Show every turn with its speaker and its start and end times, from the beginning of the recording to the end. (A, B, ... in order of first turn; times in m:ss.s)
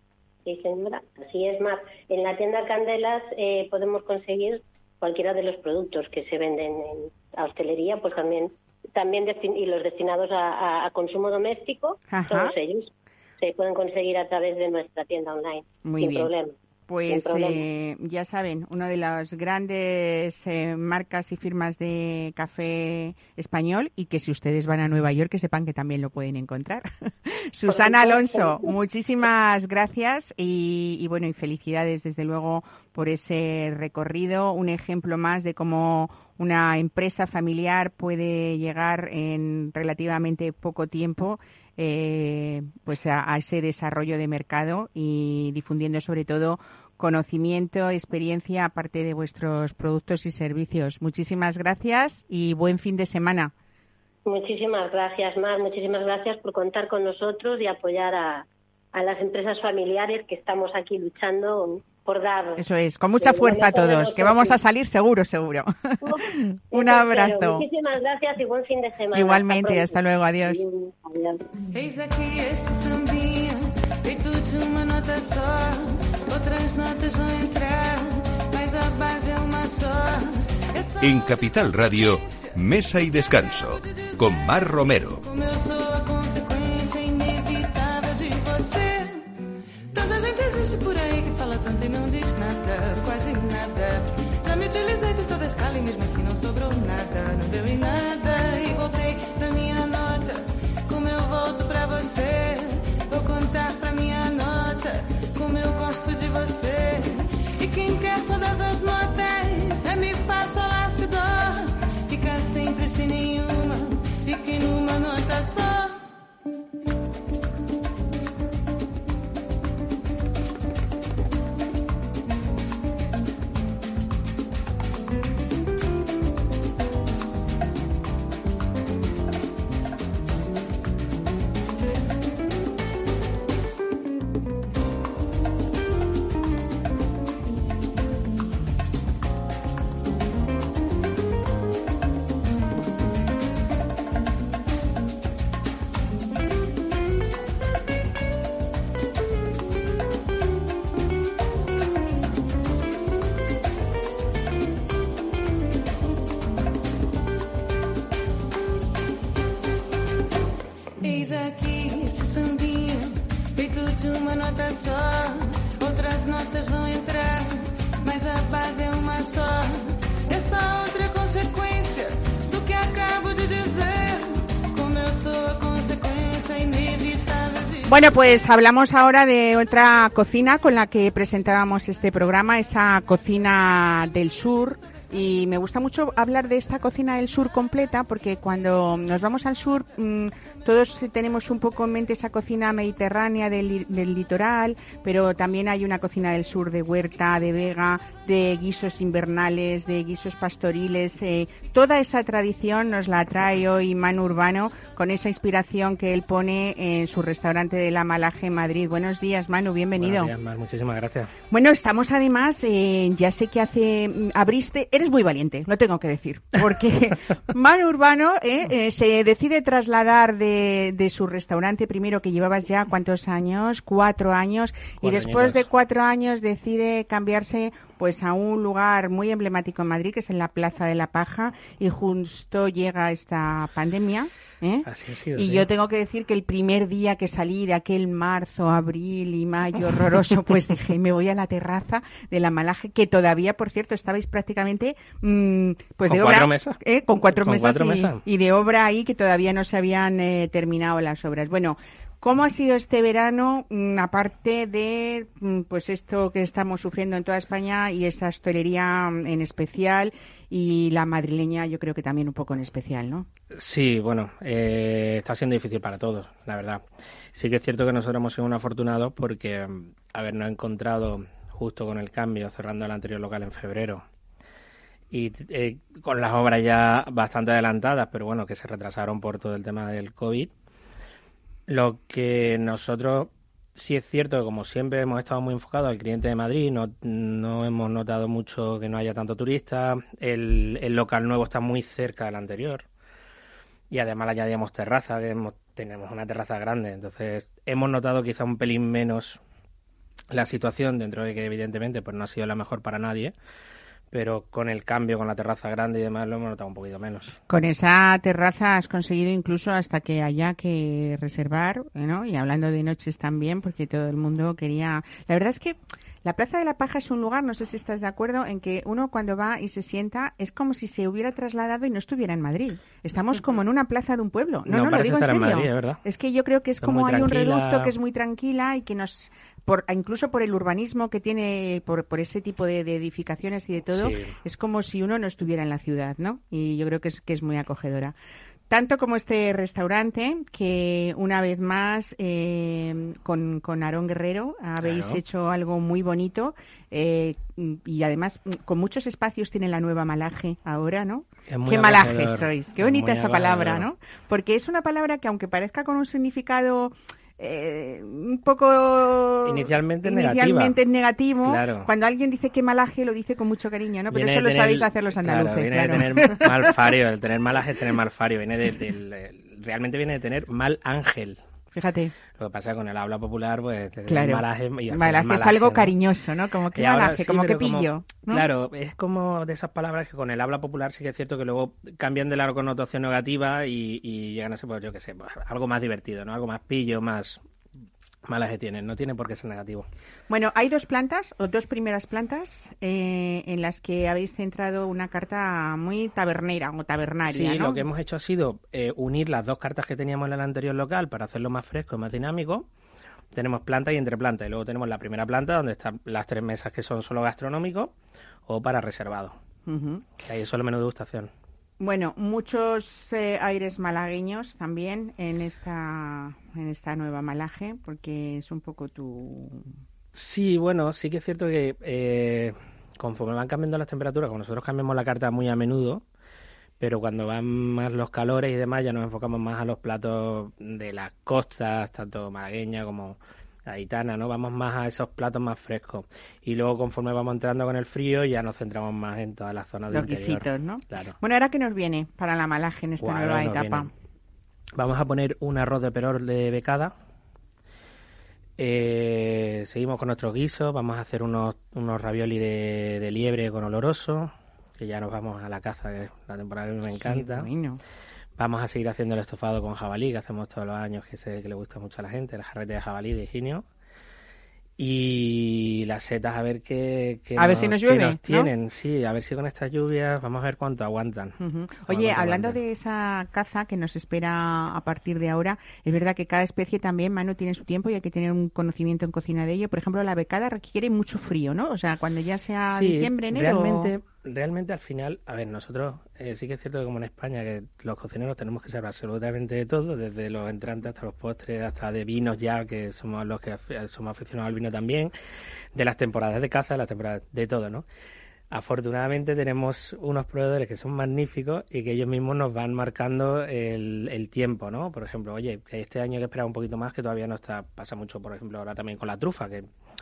0:00.4-0:16.5 A
0:12.1-0:12.5 B
0:15.8-0:16.3 B
0:16.9-0:53.5 B
0:17.1-0:17.6 A
0:27.7-0:28.7 A
0:54.3-1:02.6 A
1:02.6-1:07.7 B
1:03.2-1:04.6 A
1:06.0-1:11.4 A
1:09.1-1:10.6 B
1:11.7-1:21.5 C
1:21.0-1:25.2 D
1:23.8-1:24.5 C
1:25.2-1:29.3 C
1:29.9-1:56.0 C
2:41.0-2:57.9 C
2:57.9-3:30.3 B
3:30.0-3:31.4 E
3:31.5-4:23.3 B
3:45.0-3:45.6 E
3:54.8-3:55.7 E
4:06.1-4:08.2 E
4:23.5-4:34.0 E
4:35.1-4:40.5 E
4:41.7-4:52.9 E
4:53.9-4:59.4 E
5:00.3-5:03.3 E
5:04.1-5:07.4 E
5:07.5-5:38.2 B
5:24.7-5:26.0 E
5:26.8-5:27.9 E
5:33.8-5:34.4 E
5:38.7-6:06.8 B
5:44.8-5:45.2 E
5:51.5-5:53.9 E
5:59.4-6:00.8 E
6:01.4-6:01.9 E
6:04.1-6:11.4 E
6:11.7-6:12.2 B
6:12.3-6:15.9 E
6:14.1-6:18.5 B
6:16.7-6:27.4 E
6:28.3-6:29.9 E
6:30.3-6:37.8 B
6:37.2-6:42.7 E
6:43.3-6:48.0 E
6:48.5-6:49.4 E
6:49.7-6:50.1 B
6:50.2-6:51.3 E
6:51.8-6:59.7 B
7:00.1-7:06.0 E
7:06.8-7:21.2 E
7:19.9-7:23.9 B
7:23.0-7:23.9 E
7:24.8-7:26.9 E
7:28.6-7:37.5 E
7:37.0-7:37.8 B
7:38.4-7:43.7 E
7:44.8-7:51.4 E
7:47.4-7:48.5 B
7:51.4-8:03.9 B
7:51.9-7:52.6 E
8:02.7-8:15.1 E
8:15.8-8:17.8 E
8:18.5-8:29.7 E